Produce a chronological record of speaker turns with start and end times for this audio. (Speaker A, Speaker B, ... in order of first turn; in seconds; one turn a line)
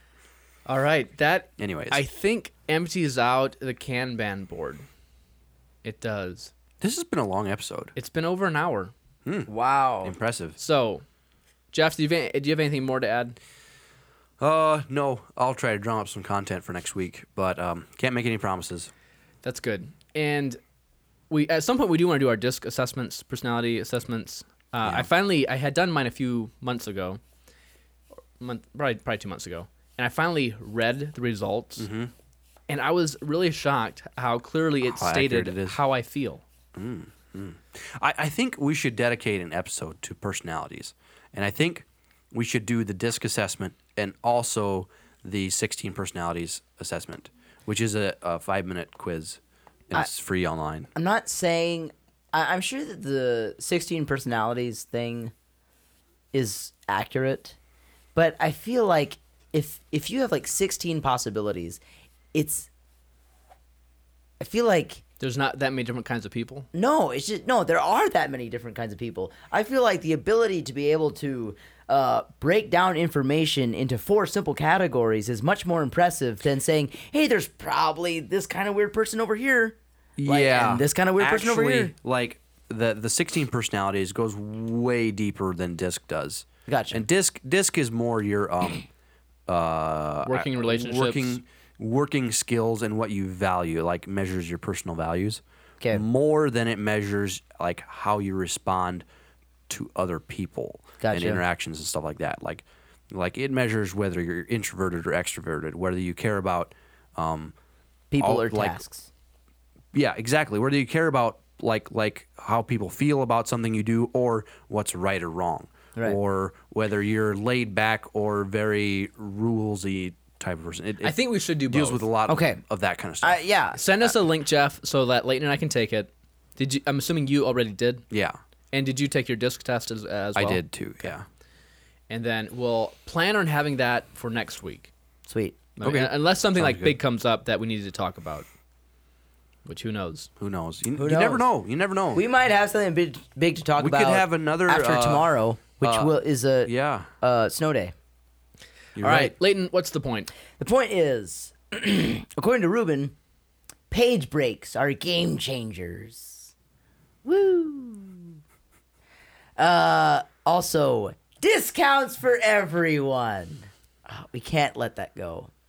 Speaker A: 0.7-4.8
Speaker B: 1.6-2.0
Speaker A: 5.8-6.5
Speaker B: 6.8-7.9
Speaker A: 8.0-8.9
Speaker B: 9.2-9.5
Speaker C: 9.5-10.1
Speaker B: 10.0-10.6
Speaker A: 10.6-11.0
Speaker A: 11.7-13.3
Speaker B: 14.4-18.9
Speaker A: 19.4-20.6
Speaker A: 21.3-27.2
Speaker A: 28.4-31.9
Speaker B: 31.8-32.1
Speaker A: 32.7-36.4
Speaker B: 34.8-35.8
Speaker B: 36.8-49.4
Speaker B: 49.9-50.9
Speaker C: 50.9-55.3
Speaker C: 56.3-57.6
Speaker C: 58.1-61.8
Speaker C: 62.3-62.7
Speaker C: 64.4-65.0
Speaker A: 65.2-66.7
Speaker C: 66.7-81.9
Speaker B: 80.2-88.9
Speaker C: 86.7-87.0
Speaker B: 89.5-99.0
Speaker A: 90.2-91.4
Speaker B: 99.7-107.5
Speaker C: 101.0-101.4
Speaker C: 108.1-109.1
Speaker B: 108.2-108.8
Speaker B: 109.9-123.4
Speaker A: 121.0-122.0
Speaker C: 122.3-122.6
Speaker C: 123.2-123.8
Speaker A: 123.7-128.0
Speaker B: 128.1-128.4
Speaker A: 128.7-131.1
Speaker B: 130.3-131.2
Speaker A: 132.1-134.9
Speaker C: 135.3-135.6
Speaker A: 135.8-138.4
Speaker B: 135.8-137.0
Speaker A: 139.7-140.3
Speaker B: 140.4-142.2
Speaker C: 140.9-141.5
Speaker C: 142.1-146.7
Speaker B: 143.8-145.3
Speaker B: 145.8-146.1
Speaker B: 146.6-147.1
Speaker C: 147.2-147.9
Speaker B: 148.9-149.3
Speaker A: 149.0-150.3
Speaker C: 150.6-153.1
Speaker C: 153.9-156.5
Speaker C: 157.2-158.4
Speaker C: 159.6-165.5